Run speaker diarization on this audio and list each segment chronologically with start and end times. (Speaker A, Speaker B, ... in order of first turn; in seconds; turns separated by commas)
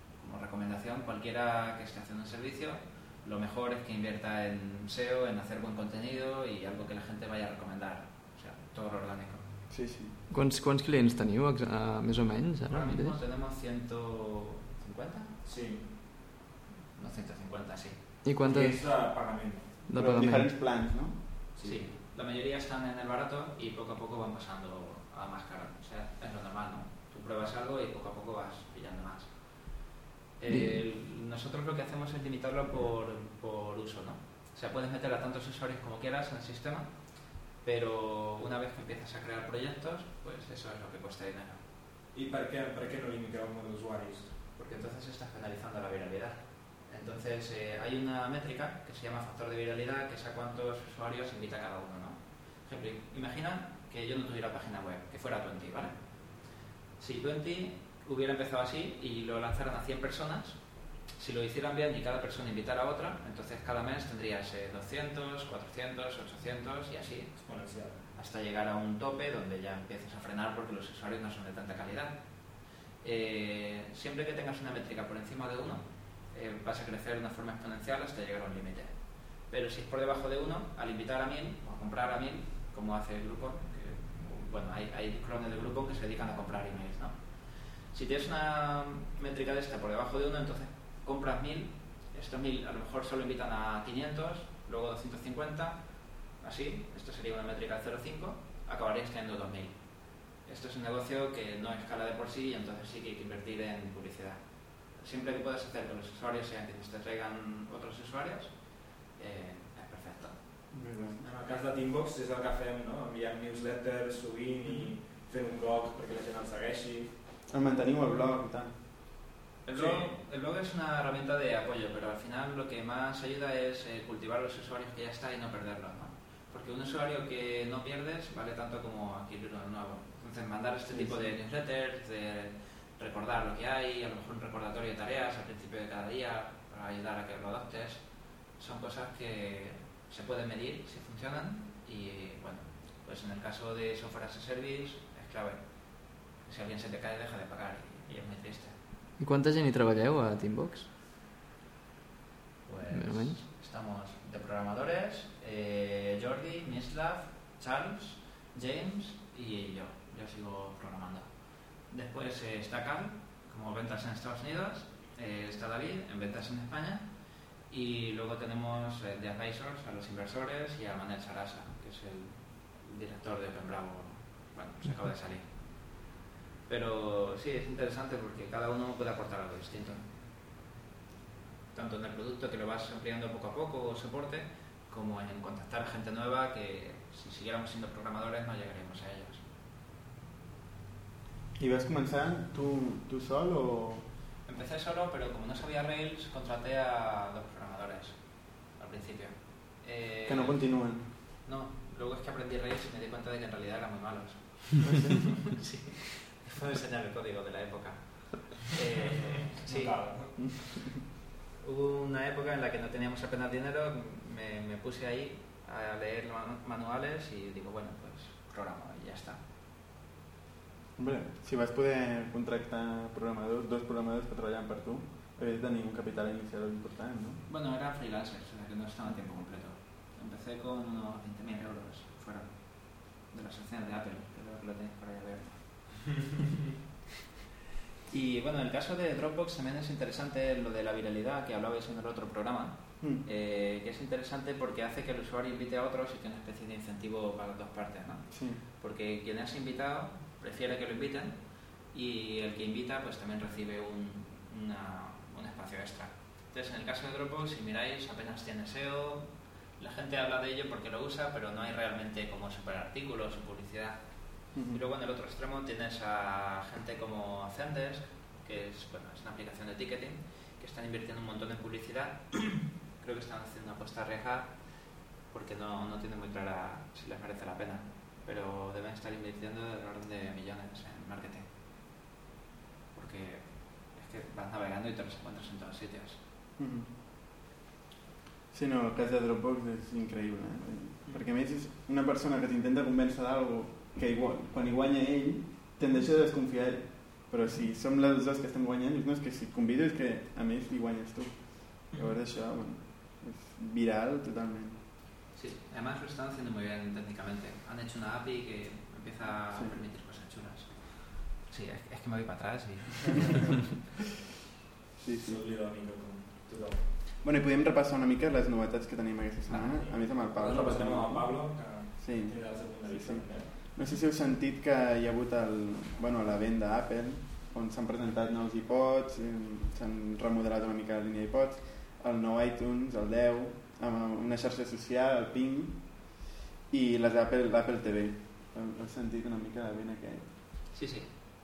Speaker A: 0.2-9.5, Speaker B: 9.7-10.2, Speaker C: 10.3-13.2, Speaker A: 12.7-15.3, Speaker D: 15.4-15.9, Speaker A: 17.0-18.1, Speaker C: 18.2-20.5, Speaker D: 18.4-19.8, Speaker B: 19.9-21.2, Speaker D: 21.6-21.9, Speaker A: 21.6-41.6, Speaker C: 30.5-30.7, Speaker D: 42.1-44.3, Speaker A: 44.5-110.4, Speaker D: 67.4-68.0, Speaker B: 110.7-111.3, Speaker D: 111.2-117.1, Speaker B: 117.5-118.8, Speaker A: 119.6-148.8, Speaker D: 119.7-120.2, Speaker B: 130.9-131.2, Speaker C: 149.2-150.9, Speaker A: 152.7-176.1, Speaker C: 152.9-153.4, Speaker A: 176.7-180.1, Speaker A: 181.7-189.4, Speaker B: 191.6-194.1, Speaker A: 194.4-205.0, Speaker B: 200.3-201.1, Speaker B: 204.9-205.2, Speaker A: 205.6-210.5, Speaker D: 209.6-210.5, Speaker A: 211.6-219.4, Speaker B: 221.0-227.4, Speaker A: 227.5-236.2, Speaker A: 238.1-281.5, Speaker B: 248.3-248.6, Speaker B: 264.5-264.8, Speaker A: 282.9-286.2, Speaker B: 286.6-286.9, Speaker B: 288.5-304.8, Speaker A: 305.3-313.6, Speaker B: 309.5-309.8, Speaker B: 315.0-315.4, Speaker D: 315.1-316.9, Speaker B: 317.2-340.3, Speaker A: 319.5-319.9, Speaker D: 319.9-323.7, Speaker A: 340.7-341.1